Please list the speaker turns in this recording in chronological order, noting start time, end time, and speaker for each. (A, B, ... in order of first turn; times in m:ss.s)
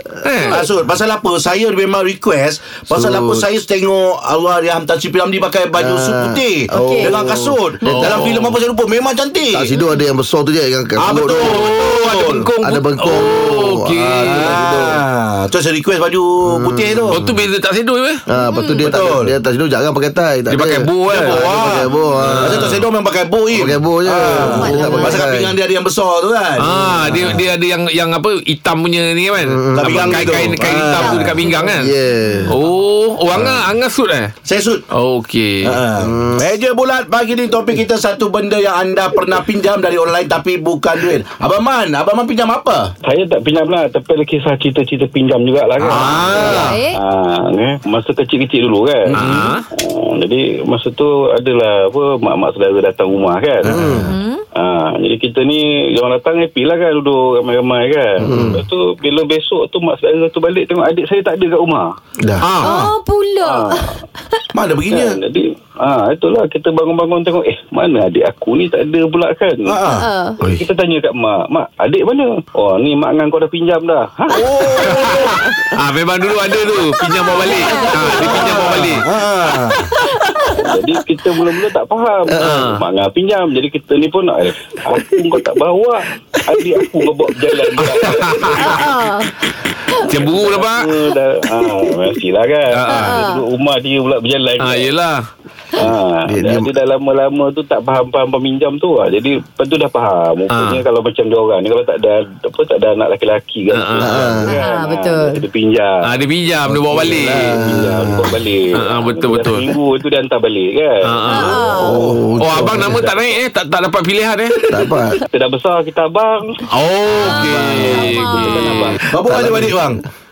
0:00.2-0:00.6 A
0:00.5-0:09.7 B
0:02.9-0:03.4 C
0:05.8-0:08.3 C
0:06.7-0:07.1 D
0:07.8-0:08.6 A
0:09.5-0:11.7 C
0:09.8-0:10.0 D
0:11.0-0:12.5 B
0:11.3-0:14.5 A
0:12.6-0:15.0 C
0:14.2-0:17.2 B
0:16.5-0:17.3 C
0:17.1-0:18.2 A
0:18.3-0:22.8 C
0:18.5-0:18.8 D
0:18.8-0:19.3 B
0:20.5-0:21.4 A
0:21.1-0:27.4 B
0:22.2-0:22.8 A
0:23.5-0:25.5 C
0:24.4-0:25.2 D
0:26.6-0:31.9 A
0:27.1-0:27.4 C
0:29.4-0:30.5 C
0:29.7-0:31.5 B
0:30.9-0:31.7 D
0:31.7-0:32.6 C
0:32.5-0:34.3 A
0:33.3-0:33.6 B
0:34.4-0:34.8 B
0:34.9-0:35.8 A
0:35.6-0:42.9 B
0:36.0-0:36.5 C
0:43.0-0:53.8 E
0:45.8-0:46.5 B
0:45.9-0:46.6 A
0:46.2-0:46.7 C
0:46.4-0:47.0 D
0:49.1-0:49.6 A
0:49.2-0:49.5 B
0:53.6-0:54.1 C
0:53.6-0:54.0 B
0:54.1-0:54.4 D
0:54.6-1:01.8 E
0:58.2-0:58.6 C
0:58.3-0:58.6 B
1:02.2-1:02.5 C
1:02.4-1:02.7 A
1:02.6-1:04.4 D
1:02.6-1:02.9 B
1:03.4-1:04.0 E
1:04.5-1:05.2 B
1:04.8-1:09.8 E
1:09.6-1:10.1 B
1:09.9-1:10.4 D
1:10.4-1:14.4 E
1:14.3-1:15.4 B
1:14.8-1:19.7 A
1:17.3-1:18.4 D
1:18.1-1:19.8 B
1:20.0-1:20.5 D
1:20.5-1:28.7 E
1:22.4-1:22.8 A
1:27.8-1:28.7 A
1:28.6-1:29.3 D
1:30.1-1:30.9 A
1:30.1-1:34.9 E
1:32.7-1:33.2 A
1:32.9-1:33.4 D
1:34.6-1:35.2 A
1:35.8-1:46.1 E
1:36.3-1:36.7 C
1:40.5-1:40.8 A
1:43.7-1:44.3 A
1:44.0-1:44.5 C
1:44.5-1:45.4 D
1:46.0-1:47.6 A
1:46.8-1:51.8 E
1:47.2-1:48.4 C
1:48.7-1:49.7 A
1:51.0-1:51.6 A
1:51.3-1:52.0 D
1:51.8-1:53.1 C
1:51.8-1:52.8 B
1:52.4-1:54.6 A
1:54.7-1:55.2 C
1:55.3-1:56.6 E
1:56.7-1:59.0 A
1:57.2-1:58.9 D
1:57.6-1:59.0 E
1:59.1-2:00.0 B
1:59.2-1:59.8 C